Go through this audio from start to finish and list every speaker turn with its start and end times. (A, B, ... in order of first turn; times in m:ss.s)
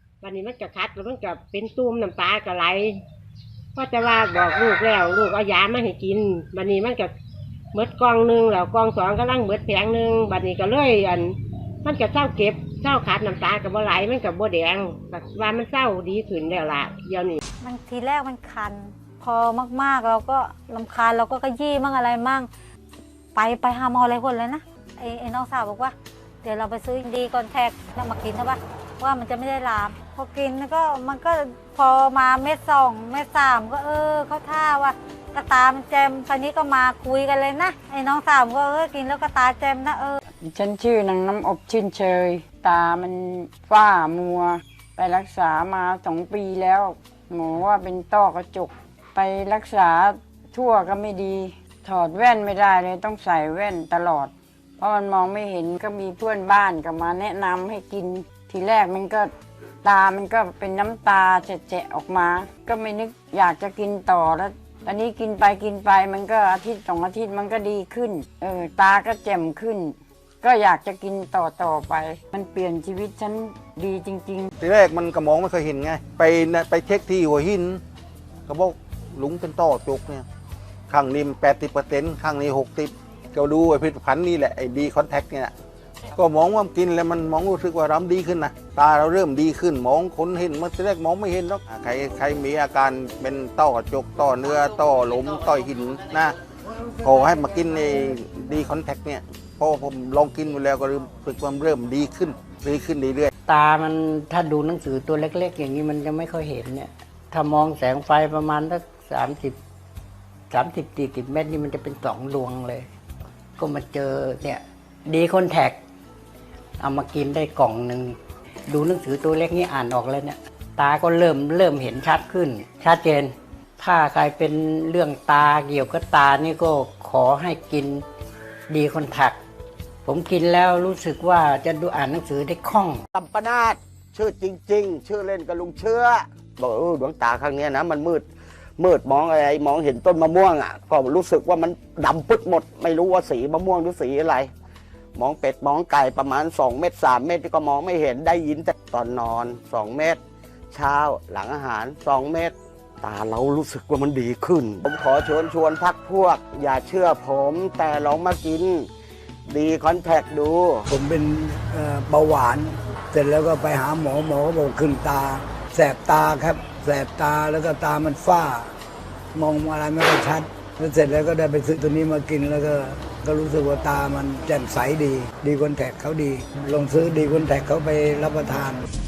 0:00.2-0:03.0 A
0:03.8-0:07.1 A
0:07.7-0:17.4 A
0:17.6-0:22.5 B
0:23.3-0:40.2 B
0:40.4-0:59.3 C
0:59.8-1:14.5 C
1:14.6-1:17.8 D
1:18.5-1:20.2 D
1:20.9-1:25.5 D
1:26.1-1:36.4 D
1:36.9-1:43.3 D
1:43.5-1:49.6 E
1:50.5-1:52.8 E
1:53.6-1:55.8 E
1:56.8-1:58.1 E
1:58.7-2:03.3 E
2:03.9-2:06.7 E
2:07.2-2:08.0 E
2:08.7-2:09.4 E
2:10.4-2:13.0 E
2:13.1-2:18.3 F
2:18.8-2:24.5 F
2:25.2-2:30.2 F
2:30.7-2:38.9 F
2:39.5-2:40.8 F
2:40.9-2:48.7 G
2:49.3-2:58.8 G